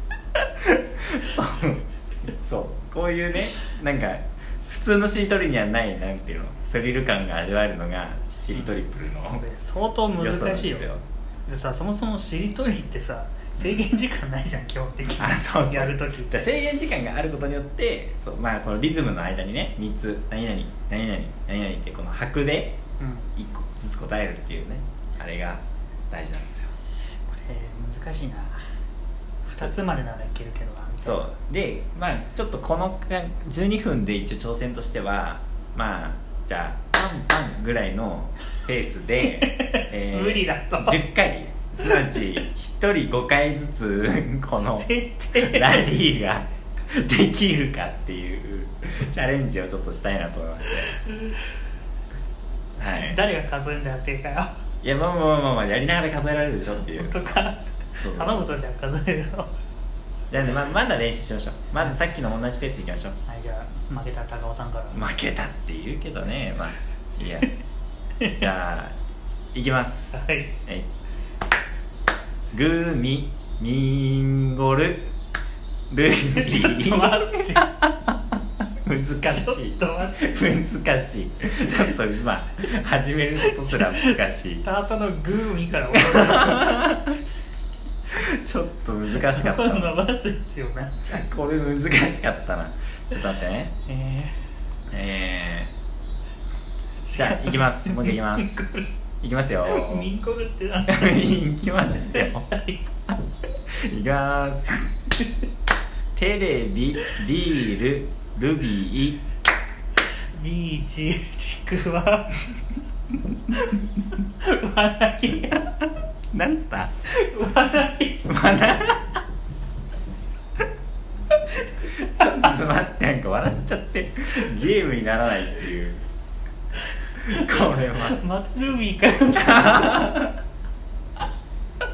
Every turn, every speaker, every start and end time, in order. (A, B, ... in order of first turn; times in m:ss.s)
0:00.6-0:09.4 A
0:08.5-0:08.8 B
0:09.3-0:10.9 B
0:10.1-0:11.0 A
0:11.5-0:16.4 B
0:15.2-0:22.8 A
0:23.0-0:23.3 B
0:23.4-0:26.7 A
0:27.3-0:28.7 B
0:29.4-0:31.3 B
0:31.0-0:51.0 A
0:39.2-0:41.0 B
0:44.6-0:45.9 B
0:52.8-0:53.2 A
0:52.8-0:54.5 B
0:54.8-0:58.5 A
0:56.9-0:59.5 B
1:00.3-1:03.2 A
1:03.2-1:05.0 B
1:04.9-1:07.5 A
1:08.2-1:08.9 A
1:09.5-1:10.9 A
1:10.1-1:10.5 B
1:12.5-1:15.1 A
1:15.9-1:18.2 A
1:16.4-1:17.7 B
1:18.8-1:24.6 A
1:19.3-1:20.2 B
1:23.4-1:27.0 B
1:25.9-1:27.1 A
1:28.1-1:30.0 A
1:29.2-1:31.2 B
1:31.1-1:33.7 A
1:33.9-1:34.4 B
1:34.9-1:35.7 A
1:37.0-1:38.9 B
1:37.1-1:38.6 A
1:39.2-1:40.1 A
1:39.6-1:41.2 B
1:40.9-1:42.5 A
1:42.1-1:42.9 B
1:43.7-1:44.9 A
1:46.1-1:49.2 A
1:50.3-1:52.6 B
1:53.5-1:55.7 B
1:56.3-1:56.9 A
1:57.0-1:58.3 B
1:58.2-1:59.1 A
2:01.9-2:06.0 A
2:07.2-2:10.1 B
2:07.2-2:08.2 A
2:09.3-2:10.4 A